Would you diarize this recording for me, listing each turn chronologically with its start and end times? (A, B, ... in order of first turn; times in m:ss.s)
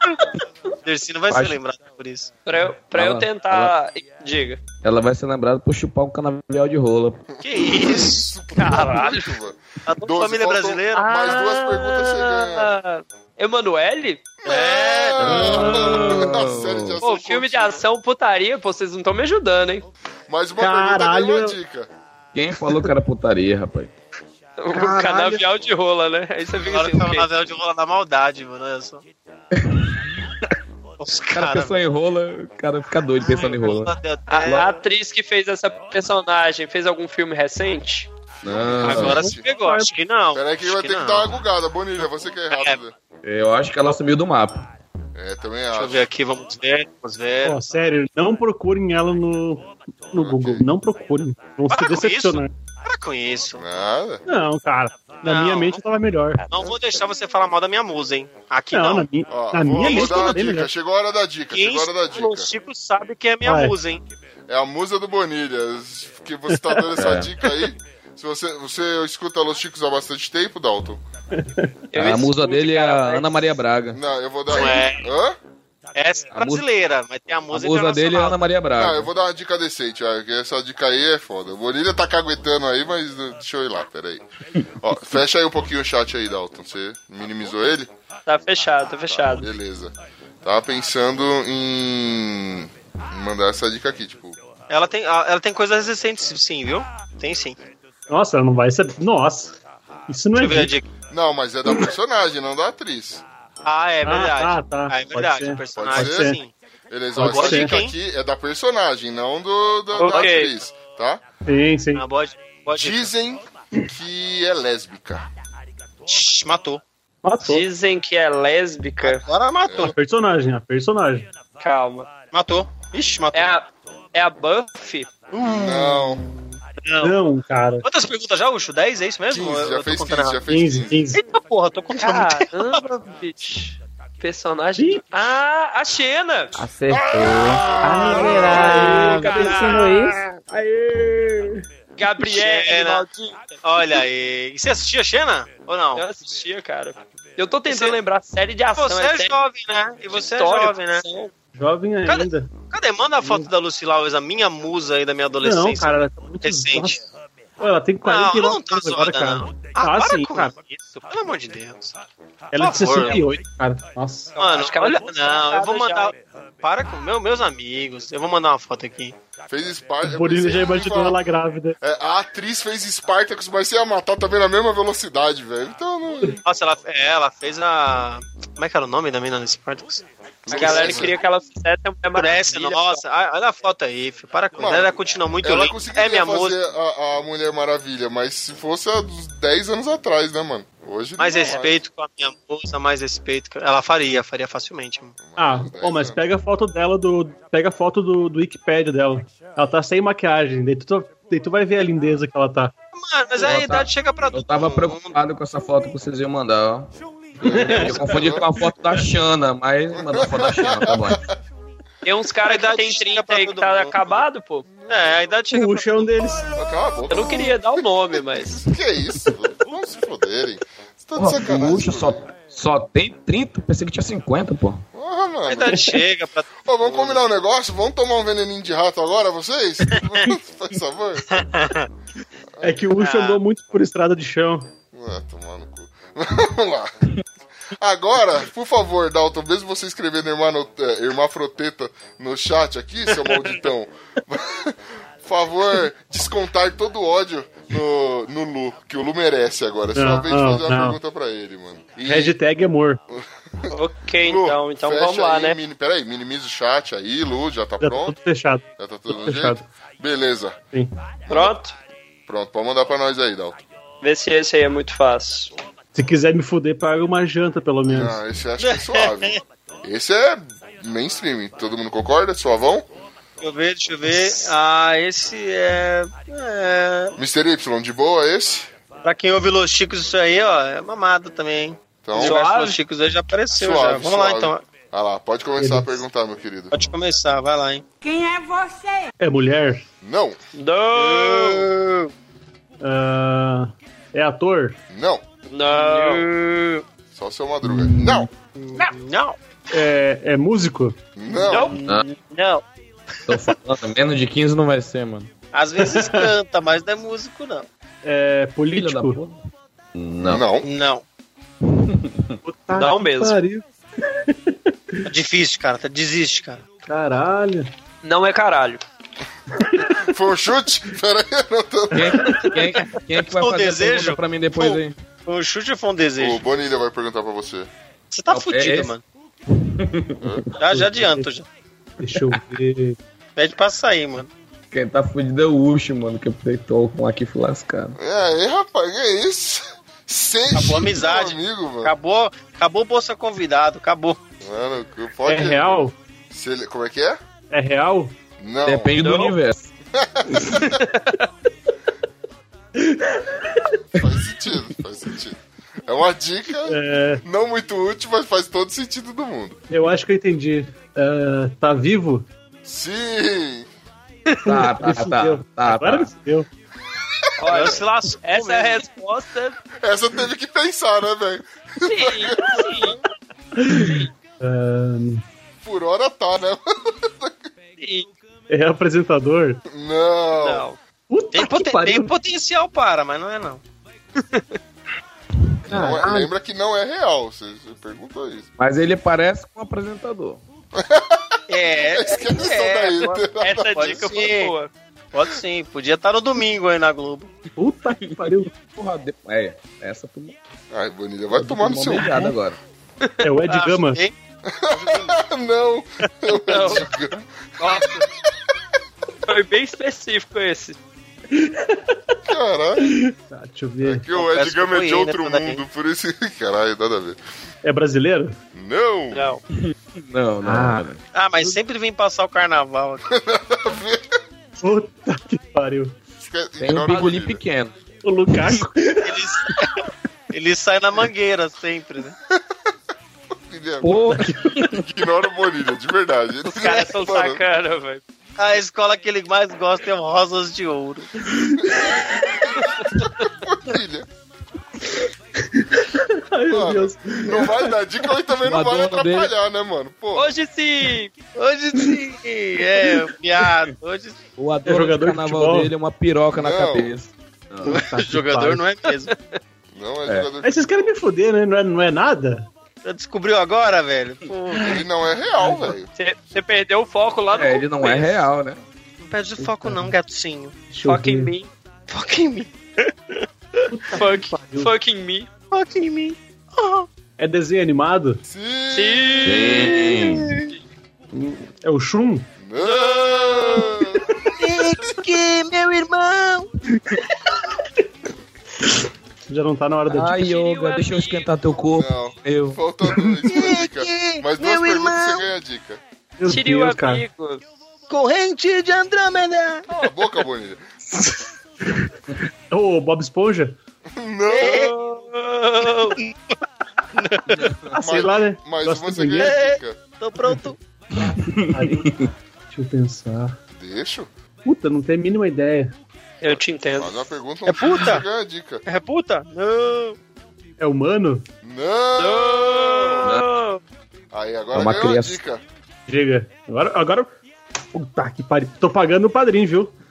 0:00.8-0:02.3 A
0:01.3-0:01.6 B
0:02.4-0:04.6 C
0:02.9-0:03.7 B
0:04.8-0:07.2 B
0:07.4-0:08.3 A
0:07.5-0:12.7 D
0:08.6-0:09.4 C
0:09.9-0:11.0 A
0:10.9-0:14.2 C
0:14.4-0:17.8 D
0:14.4-0:15.6 A
0:15.2-0:17.0 B
0:15.6-0:16.3 E
0:17.0-0:19.9 C
0:20.3-0:21.9 D
0:20.6-0:21.6 E
0:22.3-0:23.9 B
0:22.6-0:22.9 E
0:24.6-0:27.3 C
0:24.7-0:25.4 E
0:26.6-0:29.0 A
0:29.5-0:30.6 B
0:31.0-0:31.8 A
0:31.3-0:34.7 B
0:33.2-0:34.7 A
0:34.3-0:38.1 C
0:38.4-0:39.4 D
0:38.4-0:39.2 B
0:38.8-0:41.4 A
0:38.9-0:39.9 E
0:40.3-0:42.9 D
0:42.5-0:42.8 A
0:43.2-0:44.7 B
0:45.1-0:46.1 D
0:45.7-0:47.6 A
0:47.4-0:52.5 E
0:50.1-0:50.7 D
0:51.7-0:53.6 A
0:53.6-0:54.2 D
0:54.3-0:56.4 E
0:55.2-0:55.8 A
0:56.5-0:59.1 A
0:58.7-1:00.7 E
0:59.3-1:02.5 D
0:59.8-1:00.4 A
1:01.5-1:04.0 A
1:03.4-1:03.8 E
1:04.5-1:11.0 D
1:07.0-1:07.3 B
1:11.3-1:11.7 E
1:11.9-1:13.3 C
1:12.0-1:14.0 B
1:13.9-1:15.4 D
1:14.5-1:15.1 A
1:15.9-1:18.4 A
1:16.3-1:16.6 B
1:17.5-1:19.1 B
1:18.8-1:24.2 D
1:24.8-1:27.9 D
1:28.3-1:29.5 C
1:29.1-1:34.4 D
1:34.7-1:37.6 A
1:38.1-1:40.7 E
1:40.4-1:40.9 A
1:41.1-1:43.2 D
1:43.6-1:46.5 A
1:44.0-1:46.4 E
1:45.7-1:46.4 D
1:46.9-1:51.2 D
1:47.2-1:47.7 E
1:47.2-1:47.9 A
1:49.9-1:50.5 C
1:51.4-1:52.0 E
1:51.9-1:53.1 A
1:52.8-1:55.2 D
1:56.1-1:56.8 A
1:57.2-1:57.6 E
1:57.4-1:59.2 C
1:59.0-1:59.9 A
1:59.6-1:59.9 D
1:59.8-2:01.3 E
2:01.6-2:02.1 C
2:02.3-2:03.5 A
2:03.3-2:05.1 C
2:05.3-2:07.2 A
2:05.4-2:06.2 D
2:07.0-2:07.8 E
2:07.8-2:10.4 A
2:09.3-2:11.0 D
2:10.5-2:11.2 E
2:11.1-2:12.8 A
2:11.9-2:16.6 C
2:14.8-2:15.0 E
2:16.5-2:20.2 F
2:16.9-2:18.7 D
2:18.0-2:21.6 E
2:18.0-2:19.8 A
2:18.0-2:20.1 G
2:18.2-2:19.9 C
2:22.0-2:24.0 C
2:22.2-2:23.0 A
2:23.6-2:26.0 A
2:26.0-2:29.4 C
2:27.7-2:28.0 A
2:28.7-2:31.0 A
2:30.1-2:31.3 C
2:31.6-2:32.5 E
2:32.0-2:37.0 A
2:33.2-2:33.5 E
2:35.4-2:37.0 E
2:37.6-2:40.5 E
2:38.0-2:42.0 A
2:42.5-2:44.4 E
2:42.5-2:43.2 A
2:44.4-2:46.1 C
2:44.4-2:49.2 A
2:49.5-2:51.2 D
2:50.0-2:51.8 E
2:51.8-2:56.4 D
2:56.4-3:01.2 A
3:00.4-3:01.2 D
3:00.5-3:03.0 C
3:02.1-3:06.6 A
3:04.6-3:11.8 D
3:11.2-3:15.2 A
3:15.2-3:16.2 D
3:15.4-3:22.7 E
3:22.9-3:25.2 A
3:23.4-3:26.9 B
3:27.4-3:29.0 D
3:27.5-3:28.0 E
3:27.6-3:31.2 B
3:29.9-3:31.2 D
3:32.0-3:34.6 C
3:32.4-3:34.2 A
3:34.7-3:35.2 D
3:34.9-3:36.1 A
3:35.5-3:36.6 E
3:36.6-3:42.2 D
3:37.1-3:38.6 C
3:41.2-3:44.8 B
3:44.9-3:45.9 D
3:45.4-3:47.2 A
3:46.6-3:51.4 D
3:49.9-3:50.3 A
3:51.3-3:51.9 A
3:52.5-3:52.8 D
3:52.6-3:54.7 E
3:53.0-3:53.4 A
3:54.9-3:57.0 D
3:57.8-4:12.4 D
4:10.0-4:11.0 E
4:12.1-4:13.0 E
4:13.1-4:18.2 D
4:13.7-4:15.6 C
4:17.8-4:19.6 E
4:18.8-4:20.6 D
4:21.3-4:21.5 D
4:21.3-4:21.7 C
4:22.3-4:23.6 D
4:24.0-4:25.5 C
4:25.9-4:28.2 E
4:27.8-4:32.9 D
4:28.6-4:29.4 A
4:33.4-4:37.2 A
4:37.2-4:38.7 D
4:39.0-4:44.6 A
4:42.0-4:42.4 D
4:42.2-4:42.8 C
4:43.6-4:46.7 D
4:45.6-4:46.0 E
4:46.7-4:47.8 A
4:48.0-4:49.1 G
4:49.2-4:49.8 E
4:50.0-4:50.4 D
4:50.6-4:51.7 C
4:50.9-4:52.1 A
4:52.8-4:54.8 E
4:54.9-4:55.2 D
4:55.5-4:56.3 C
4:55.7-4:56.8 A
4:57.1-4:58.3 D
4:57.6-4:58.2 E
4:58.6-4:59.4 A
4:59.7-5:01.0 E
5:01.2-5:01.8 D
5:01.5-5:02.6 A
5:01.5-5:01.8 C
5:03.3-5:05.3 B
5:05.5-5:07.7 A
5:05.8-5:06.3 E
5:08.0-5:09.2 E
5:08.7-5:09.4 B
5:09.9-5:10.4 B
5:10.2-5:10.6 D
5:10.6-5:11.0 A
5:11.7-5:12.4 B
5:12.4-5:15.1 E
5:12.8-5:13.4 C
5:15.0-5:16.6 A
5:16.8-5:17.7 E
5:18.0-5:18.8 C
5:19.5-5:20.0 E
5:20.0-5:22.6 D
5:21.9-5:24.9 B
5:23.2-5:26.4 A
5:26.2-5:27.7 D
5:28.1-5:29.0 A
5:28.3-5:28.9 B
5:29.5-5:30.5 B
5:30.6-5:31.4 A
5:30.7-5:31.3 E
5:32.0-5:33.0 E
5:32.1-5:32.4 B
5:33.4-5:34.3 A
5:34.7-5:38.0 B
5:38.0-5:41.9 D
5:40.5-5:44.2 A
5:44.4-5:47.2 D
5:45.2-5:45.9 E
5:47.5-5:48.2 E
5:48.4-5:48.9 D
5:48.6-5:49.7 B
5:49.0-5:49.4 C
5:49.9-5:50.8 D
5:50.6-5:51.2 C
5:52.8-5:53.8 E
5:54.0-5:59.6 D
5:56.6-5:57.2 E
5:59.7-6:02.2 E
6:02.6-6:03.7 D
6:04.4-6:06.5 E
6:04.4-6:06.1 B
6:07.4-6:09.6 C
6:07.4-6:08.8 A
6:09.8-6:12.9 D
6:11.8-6:13.0 C
6:13.6-6:15.2 E
6:15.6-6:17.5 D
6:17.8-6:18.1 C
6:18.5-6:19.6 E
6:19.7-6:20.6 D
6:21.1-6:22.1 E
6:21.3-6:23.6 A
6:24.2-6:24.6 C
6:25.7-6:28.5 D
6:25.7-6:26.3 E
6:28.6-6:30.4 B
6:30.8-6:34.2 D
6:31.5-6:34.6 A
6:33.4-6:34.7 C
6:35.1-6:37.3 A
6:37.6-6:38.5 E
6:38.0-6:40.4 B
6:40.7-6:42.2 D
6:41.4-6:42.6 B
6:41.9-6:42.4 E
6:43.2-6:44.0 E
6:43.5-6:44.1 A
6:44.4-6:48.0 D
6:46.5-6:46.9 C
6:47.6-6:48.1 C
6:49.3-6:50.8 C
6:51.3-6:52.2 E
6:52.3-6:52.9 D
6:52.8-6:54.0 E
6:53.8-6:57.2 D
6:54.1-6:55.6 A
6:57.6-6:58.4 E
6:58.5-6:59.3 D
6:59.1-6:59.4 C
6:59.6-7:01.0 B
7:00.4-7:00.8 E
7:01.1-7:03.0 A
7:03.1-7:04.2 D
7:04.6-7:06.0 E
7:06.2-7:07.4 D
7:06.6-7:07.8 B
7:08.0-7:09.6 E
7:08.4-7:08.7 B
7:09.0-7:12.1 A
7:12.3-7:12.7 D
7:13.3-7:14.1 D
7:13.8-7:14.8 B
7:14.0-7:14.8 E
7:14.7-7:17.4 D
7:16.6-7:18.0 C
7:18.4-7:21.1 A
7:21.2-7:22.5 E
7:21.6-7:24.0 D
7:25.4-7:27.7 E
7:26.5-7:30.3 D
7:28.4-7:29.3 B
7:30.1-7:31.1 C
7:31.4-7:34.2 A
7:34.4-7:37.9 B
7:34.6-7:35.7 E
7:36.3-7:36.9 D
7:37.6-7:39.1 A
7:37.7-7:38.6 E
7:39.1-7:39.4 C
7:39.7-7:40.9 D
7:40.4-7:42.5 E
7:42.8-7:44.8 A
7:44.5-7:44.8 E
7:44.6-7:45.9 D
7:45.4-7:45.7 E
7:46.0-7:48.2 C
7:47.3-7:48.6 B
7:49.0-7:50.5 A
7:49.4-7:49.9 E
7:50.7-7:51.3 E
7:50.8-7:51.5 C
7:51.9-7:52.5 A
7:53.7-7:54.7 E
7:53.9-7:55.3 C
7:55.5-7:56.9 A
7:57.2-7:58.2 E
7:58.3-7:59.6 D
7:58.7-7:59.9 C
7:59.2-8:00.4 B
7:59.6-8:00.5 A
8:01.1-8:02.3 E
8:02.4-8:04.4 D
8:02.6-8:03.8 C
8:04.4-8:06.5 A
8:09.3-8:10.2 E
8:09.9-8:12.6 B
8:10.2-8:11.3 C
8:11.7-8:15.8 D
8:13.3-8:15.2 A
8:16.2-8:17.0 E
8:16.3-8:17.4 C
8:17.9-8:19.6 A
8:19.7-8:20.6 D
8:21.0-8:23.6 E
8:23.9-8:24.7 D
8:24.3-8:24.9 A
8:24.4-8:26.0 C
8:25.6-8:26.4 A
8:26.9-8:27.5 A
8:27.7-8:29.8 D
8:27.7-8:29.4 E
8:29.2-8:30.6 A
8:31.0-8:32.1 B
8:31.0-8:33.4 E
8:33.5-8:34.1 D
8:34.4-8:35.7 E
8:36.2-8:37.1 C
8:36.2-8:38.6 D
8:37.4-8:38.0 A
8:38.6-8:40.0 A
8:40.6-8:41.2 E
8:41.4-8:43.2 D
8:42.0-8:43.6 C
8:43.0-8:43.3 B
8:44.1-8:45.4 D
8:44.5-8:45.2 B
8:45.9-8:47.1 E
8:47.7-8:49.7 E